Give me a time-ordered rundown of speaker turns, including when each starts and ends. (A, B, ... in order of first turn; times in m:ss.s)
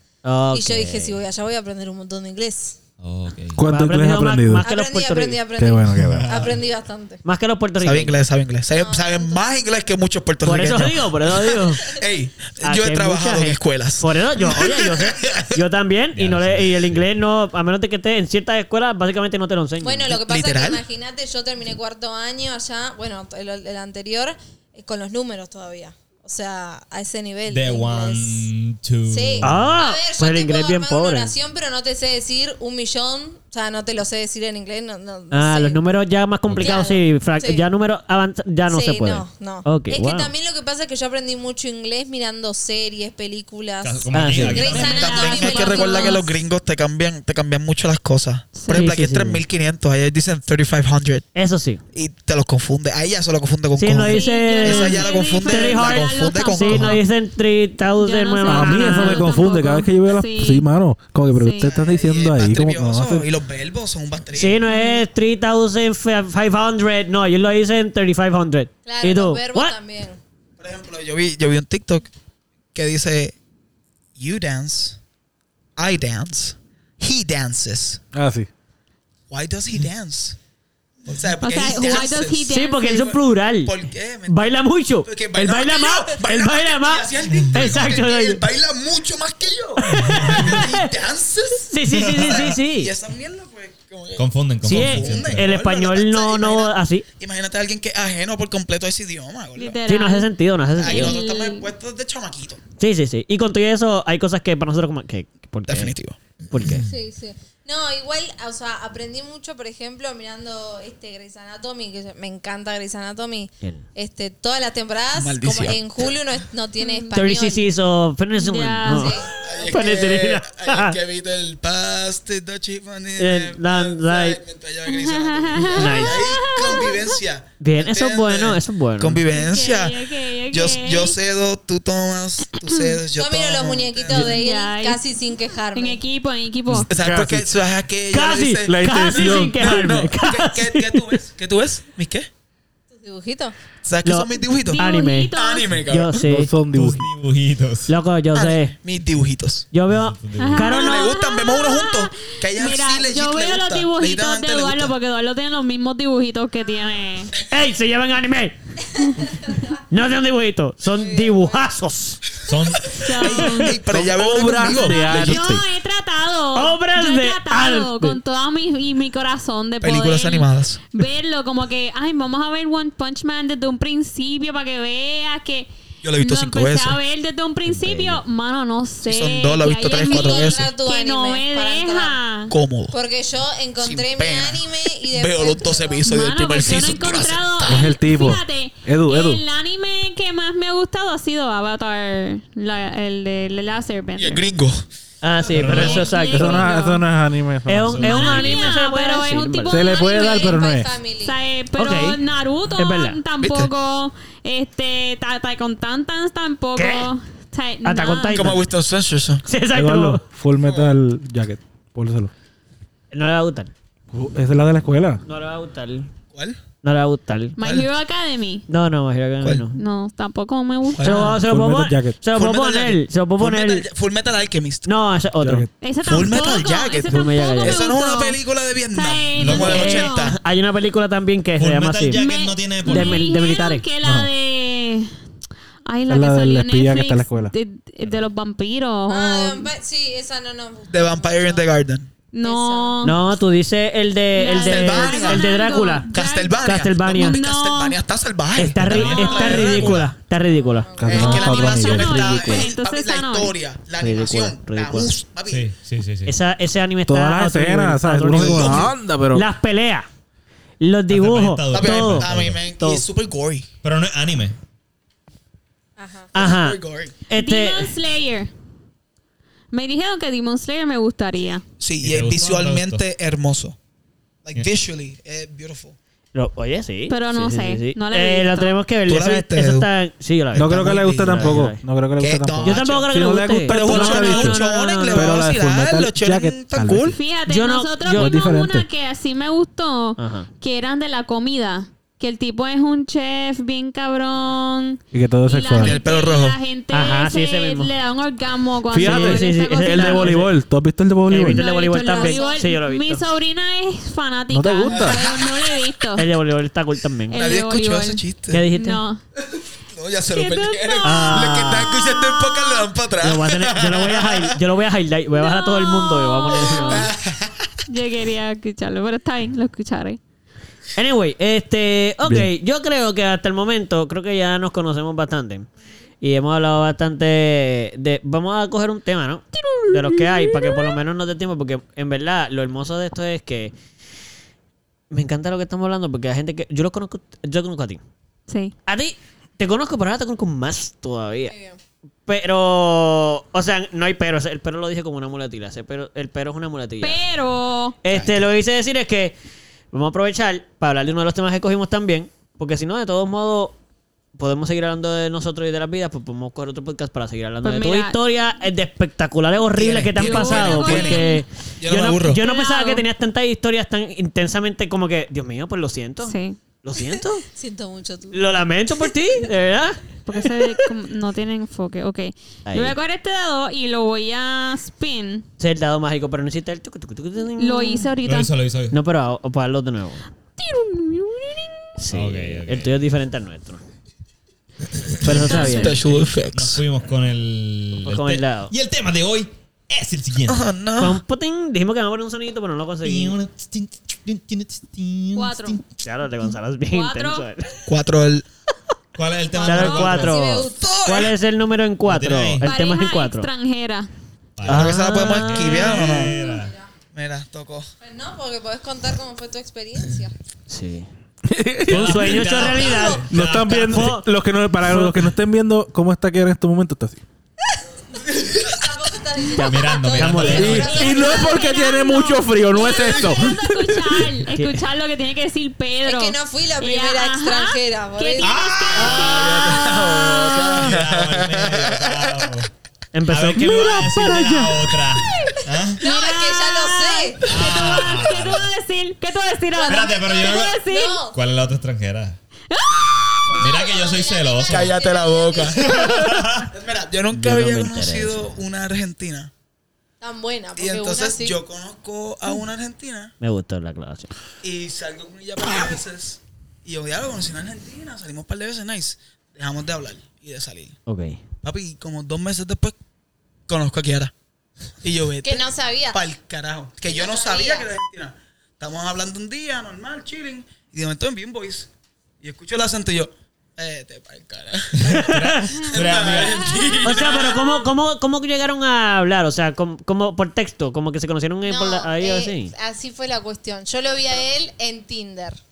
0:00.2-0:01.2 A
0:00.5-0:02.8 B
0:03.0-0:03.6 C
0:03.6-0:04.7 D
0:03.6-0:05.4 A
0:04.6-0:07.2 B
0:05.6-0:06.3 D
0:06.0-0:06.6 C
0:07.2-0:08.2 A
0:07.8-0:15.6 E
0:08.7-0:09.4 B
0:10.4-0:11.9 A
0:12.6-0:20.1 A
0:16.1-0:17.1 C
0:19.8-0:28.5 B
0:20.1-0:20.8 E
0:27.5-0:29.8 C
0:29.1-0:35.8 B
0:29.4-0:31.3 A
0:35.3-0:40.3 A
0:36.5-0:36.8 C
0:36.6-0:37.6 B
0:38.7-0:46.3 B
0:43.8-0:45.1 C
0:44.1-0:44.7 A
0:44.7-0:46.3 F
0:44.7-0:51.3 E
0:48.6-0:48.9 F
0:48.7-0:49.4 A
0:51.3-0:51.8 A
0:51.9-0:57.0 E
0:53.8-0:59.3 A
0:54.1-0:57.0 F
0:58.0-1:00.6 F
0:58.4-1:03.3 D
1:01.3-1:01.7 F
1:01.6-1:04.6 E
1:04.3-1:09.7 A
1:04.7-1:05.0 F
1:08.8-1:10.2 B
1:10.6-1:12.1 E
1:12.7-1:13.4 E
1:14.2-1:15.0 E
1:15.8-1:18.0 E
1:18.1-1:18.5 D
1:19.3-1:20.4 E
1:21.0-1:24.4 E
1:21.4-1:23.0 F
1:22.5-1:23.8 A
1:24.3-1:28.4 A
1:25.0-1:39.8 E
1:29.9-1:30.9 A
1:29.9-1:30.6 C
1:31.7-1:32.9 A
1:31.9-1:32.5 C
1:34.2-1:35.5 C
1:34.6-1:37.0 A
1:39.6-1:40.3 F
1:39.9-1:41.2 A
1:40.8-1:42.6 E
1:40.8-1:41.7 F
1:42.8-1:45.9 A
1:45.7-1:46.2 E
1:46.5-1:46.9 A
1:46.8-1:57.7 B
1:55.2-1:56.2 E
1:56.8-1:57.1 F
1:57.1-2:01.0 A
1:58.3-1:59.2 F
1:58.9-1:59.3 B
1:59.3-2:14.4 E
2:03.2-2:04.4 A
2:04.8-2:07.2 F
2:05.7-2:06.2 A
2:07.6-2:09.2 A
2:09.3-2:11.2 F
2:13.1-2:16.0 B
2:14.2-2:15.0 F
2:15.7-2:16.9 F
2:16.7-2:17.5 D
2:16.9-2:22.3 E
2:18.1-2:21.2 A
2:18.7-2:19.8 D
2:22.9-2:23.5 B
2:23.8-2:26.3 E
2:24.0-2:25.3 A
2:24.6-2:25.8 F
2:25.9-2:26.5 A
2:26.2-2:27.0 D
2:26.7-2:27.9 C
2:27.9-2:28.7 A
2:28.3-2:29.7 E
2:29.7-2:31.1 A
2:29.9-2:30.7 C
2:30.4-2:37.3 F
2:30.6-2:34.9 E
2:37.5-2:38.6 A
2:39.9-2:42.2 A
2:40.9-2:41.7 B
2:42.5-2:42.9 C
2:42.9-2:45.6 E
2:43.0-2:43.8 F
2:43.2-2:43.7 A
2:43.9-2:45.6 D
2:44.7-3:02.5 F
2:46.5-2:48.2 A
2:49.8-2:50.8 E
2:56.0-2:57.0 E
2:57.7-2:58.2 A
2:59.0-3:00.7 E
2:59.9-3:02.2 B
3:02.5-3:03.0 E
3:02.9-3:06.1 B
3:03.8-3:07.9 E
3:06.0-3:14.4 F
3:07.6-3:09.4 D
3:14.2-3:14.8 E
3:15.2-3:16.7 A
3:15.5-3:16.1 C
3:15.6-3:17.0 F
3:16.2-3:18.3 D
3:17.7-3:20.0 A
3:17.8-3:18.6 C
3:18.0-3:20.6 F
3:19.7-3:21.0 D
3:19.9-3:21.4 B
3:21.2-3:28.6 F
3:21.8-3:22.2 A
3:22.7-3:23.2 A
3:23.4-3:23.7 E
3:26.8-3:27.1 A
3:27.8-3:28.6 A
3:28.3-3:29.4 E
3:29.4-3:30.2 A
3:29.7-3:32.3 D
3:30.6-3:31.0 E
3:33.1-3:33.7 A
3:34.1-3:35.2 D
3:35.2-3:36.1 A
3:36.3-3:36.6 E
3:36.8-3:37.6 A
3:37.6-3:38.6 F
3:37.6-3:37.9 E
3:38.7-3:39.8 A
3:39.8-3:41.3 F
3:40.9-3:41.4 E
3:41.0-3:43.8 A
3:41.2-3:42.2 D
3:42.3-3:44.9 E
3:44.8-3:45.7 A
3:45.4-3:45.7 D
3:45.8-3:48.4 F
3:46.0-3:50.4 E
3:47.1-3:47.9 A
3:48.9-3:50.3 F
3:49.4-3:49.9 C
3:49.6-3:52.2 A
3:51.6-3:53.3 C
3:52.1-3:55.1 F
3:52.8-3:53.9 A
3:54.0-3:54.3 D
3:55.9-3:59.7 F
3:56.1-3:57.5 D
3:59.1-4:01.7 B
4:00.9-4:02.1 E
4:02.3-4:03.2 F
4:02.4-4:03.1 B
4:03.0-4:07.4 A
4:04.4-4:06.6 F
4:04.5-4:05.5 E
4:06.1-4:10.1 E
4:07.1-4:08.0 F
4:08.6-4:11.5 A
4:08.8-4:10.1 C
4:09.1-4:09.7 B
4:10.4-4:11.7 B
4:11.0-4:12.7 D
4:11.0-4:15.7 E
4:11.1-4:13.5 F
4:14.0-4:15.2 A
4:15.4-4:16.3 C
4:16.2-4:20.1 A
4:17.1-4:19.5 D
4:18.3-4:19.0 E
4:20.8-4:23.1 A
4:21.1-4:22.6 C
4:21.7-4:23.7 E
4:23.8-4:24.6 C
4:26.0-4:26.3 B
4:26.3-4:27.9 A
4:26.3-4:27.1 E
4:27.3-4:28.5 F
4:29.7-4:31.6 F
4:31.8-4:33.8 E
4:32.0-4:33.0 C
4:34.4-4:36.0 E
4:36.3-4:41.8 A
4:37.1-4:38.8 F
4:39.1-4:39.9 E
4:40.5-4:43.1 E
4:40.6-4:47.2 D
4:42.6-4:45.4 A
4:43.6-4:47.2 E
4:47.1-5:00.4 F
4:47.4-4:48.4 A
4:48.1-4:48.8 D
4:50.2-4:50.5 A
4:55.1-4:56.0 D
4:55.7-4:56.6 E
4:56.9-4:57.9 A
4:58.9-5:01.7 D
4:59.0-5:00.5 A
5:01.3-5:03.2 A
5:01.4-5:06.3 F
5:02.1-5:02.5 B
5:04.5-5:05.3 D
5:04.9-5:05.8 E
5:06.1-5:07.4 A
5:07.3-5:09.2 F
5:07.3-5:08.7 E
5:08.5-5:09.0 A
5:09.9-5:14.5 E
5:10.3-5:12.9 F
5:11.0-5:11.9 A
5:13.2-5:17.1 A
5:15.3-5:17.1 F
5:16.5-5:17.7 E
5:17.9-5:20.2 F
5:21.0-5:25.7 A
5:22.2-5:22.5 D
5:26.2-5:33.7 A
5:29.5-5:31.0 F
5:35.1-5:38.0 A
5:38.5-5:38.7 F
5:38.8-5:41.5 A
5:41.5-5:41.8 B
5:42.3-5:47.2 A
5:47.0-5:48.0 F
5:48.0-5:49.3 A
5:48.1-5:48.4 E
5:49.9-5:53.8 A
5:54.4-6:07.4 A
5:57.6-5:58.2 F
5:59.7-6:01.2 E
6:00.2-6:01.4 F
6:01.8-6:02.4 E
6:02.4-6:03.0 F
6:06.2-6:06.6 F
6:07.2-6:08.4 B
6:08.3-6:10.0 A
6:10.2-6:15.4 F
6:12.7-6:13.0 A
6:15.6-6:18.1 A
6:17.6-6:18.5 F
6:18.2-6:19.0 C
6:18.9-6:20.2 A
6:20.6-6:21.8 F
6:22.0-6:23.8 A
6:22.1-6:23.0 C
6:25.2-6:26.0 A
6:25.2-6:30.6 C
6:25.2-6:26.8 E
6:25.4-6:26.0 F
6:28.0-6:28.7 A
6:30.5-6:31.2 E
6:31.0-6:33.4 A
6:33.0-6:35.8 C
6:35.3-6:35.8 F
6:36.0-6:37.8 A
6:36.9-6:37.4 F
6:37.9-6:38.4 E
6:39.2-6:40.4 C
6:39.6-6:43.5 A
6:39.8-6:40.9 B
6:40.7-6:41.4 E
6:42.0-6:42.7 C
6:42.6-6:44.1 F
6:44.6-6:46.7 C
6:44.6-6:46.4 E
6:44.6-6:46.0 A
6:46.0-6:46.9 B
6:47.1-6:47.9 E
6:48.0-6:50.3 B
6:50.7-6:51.1 A
6:51.5-6:52.4 D
6:51.8-6:53.3 A
6:51.9-6:54.2 C
6:52.5-6:53.0 E
6:53.3-6:57.2 D
6:53.8-6:54.3 A
6:54.8-6:55.3 A
6:58.4-6:58.8 E
6:58.6-7:01.9 B
6:59.5-7:01.2 A
6:59.6-7:01.0 C
7:00.4-7:04.2 D
7:00.8-7:10.7 F
7:04.5-7:04.8 A
7:06.0-7:09.5 B
7:08.4-7:10.0 C
7:09.1-7:12.5 E
7:09.6-7:10.8 A
7:10.7-7:12.7 C
7:13.1-7:14.9 A
7:13.3-7:16.0 C
7:15.0-7:21.2 F
7:16.0-7:17.5 B
7:17.4-7:18.7 C
7:19.7-7:21.4 B
7:19.9-7:22.4 C
7:22.7-7:23.0 F
7:23.5-7:26.4 B
7:23.6-7:25.0 C
7:24.7-7:29.5 E
7:25.8-7:26.7 C
7:27.3-7:28.4 A
7:30.2-7:31.6 B
7:30.8-7:33.3 E
7:33.4-7:34.3 A
7:34.6-7:41.0 E
7:41.1-7:41.4 A
7:41.6-7:43.0 E
7:43.7-7:44.3 E
7:45.0-7:51.9 E
7:45.4-7:46.2 B
7:47.1-7:47.9 B
7:52.4-7:57.7 E
7:55.0-7:56.8 C
7:55.0-7:55.7 A
7:56.3-7:57.7 F
7:57.0-8:02.7 A
8:01.6-8:05.6 B